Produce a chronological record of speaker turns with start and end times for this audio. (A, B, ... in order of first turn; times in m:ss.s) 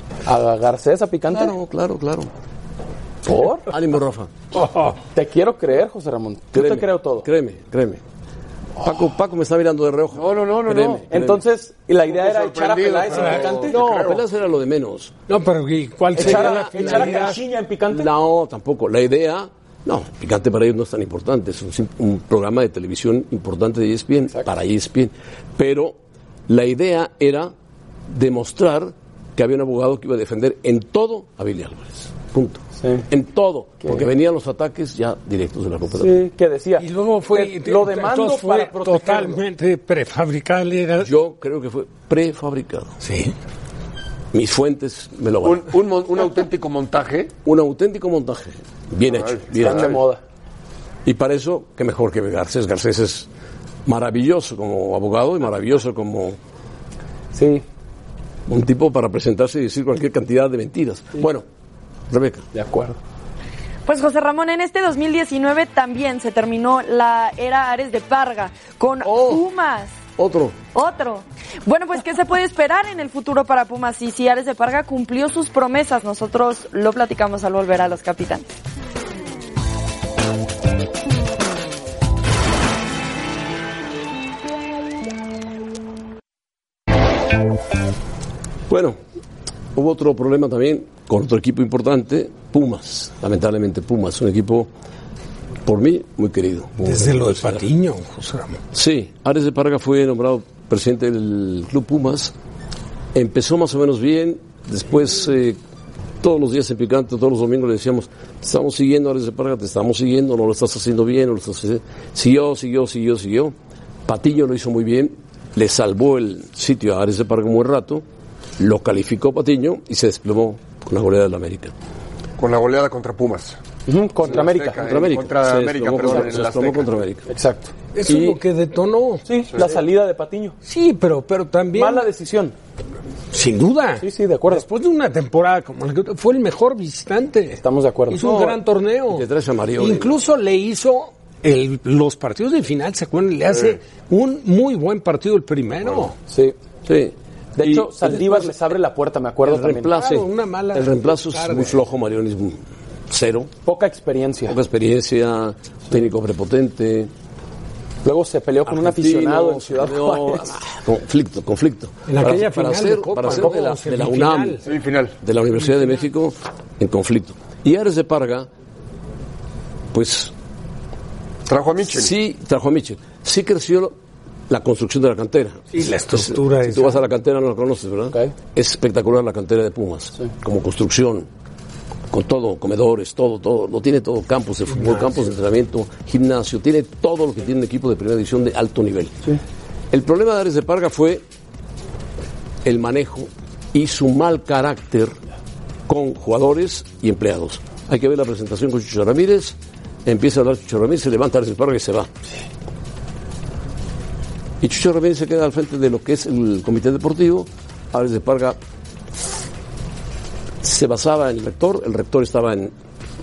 0:00.2-0:01.6 A
0:01.3-0:02.3 B
0:03.3-0:03.7 A
0:03.7-0:04.3 B
0:04.6-0:04.9 C
0:05.0-0:07.3 A
0:06.5-0:08.0 B
0:08.8-0:11.4 B
0:10.1-0:11.1 D
0:11.1-0:14.2 A
0:12.0-0:14.2 D
0:13.1-0:13.8 C
0:14.0-0:15.1 B
0:15.3-0:17.4 C
0:16.1-0:18.1 A
0:17.9-0:26.0 B
0:26.5-0:27.5 B
0:28.1-0:36.2 B
0:32.8-0:33.1 A
0:33.8-0:34.1 A
0:36.0-0:39.4 A
0:36.8-0:41.1 C
0:41.0-0:43.0 B
0:43.0-0:43.4 C
0:44.3-0:45.7 B
0:45.4-0:47.3 D
0:47.4-0:50.0 B
0:49.0-0:50.0 D
0:49.6-0:50.2 A
0:51.0-0:53.3 B
0:53.9-0:56.4 B
0:57.3-0:57.6 A
0:58.5-1:01.4 B
1:02.1-1:02.4 B
1:02.5-1:03.0 A
1:03.9-1:10.0 E
1:10.2-1:10.6 B
1:10.7-1:18.5 E
1:28.7-1:29.0 B
1:29.7-1:34.7 B
1:35.6-1:37.7 B
1:36.8-1:38.6 C
1:38.7-1:42.3 B
1:43.1-1:45.6 B
1:46.2-1:53.5 B
1:54.0-1:58.0 B
1:58.6-2:01.7 B
2:02.4-2:03.6 D
2:03.9-2:04.8 A
2:04.2-2:07.0 D
2:04.8-2:07.2 B
2:06.1-2:06.3 A
2:07.3-2:07.7 A
2:07.9-2:09.2 C
2:08.0-2:08.4 B
2:09.3-2:10.6 A
2:10.6-2:12.1 C
2:11.7-2:12.6 A
2:13.3-2:19.2 C
2:14.0-2:14.7 A
2:17.6-2:18.6 A
2:19.1-2:20.1 B
2:19.8-2:26.1 C
2:26.3-2:26.6 A
2:26.9-2:28.6 B
2:27.6-2:29.9 A
2:29.4-2:33.5 B
2:29.9-2:31.8 C
2:33.6-2:34.6 A
2:34.5-2:37.1 B
2:38.0-2:40.6 A
2:38.7-2:44.6 B
2:42.0-2:44.6 C
2:44.6-2:45.2 D
2:45.2-2:48.5 B
2:45.6-2:46.0 C
2:49.9-2:50.3 B
2:51.5-2:52.1 D
2:51.9-2:54.0 B
2:54.5-3:01.3 B
2:55.7-2:57.0 C
3:02.1-3:09.2 B
3:09.9-3:11.2 B
3:12.6-3:15.2 B
3:15.9-3:22.1 B
3:24.6-3:28.6 B
3:30.6-3:32.7 B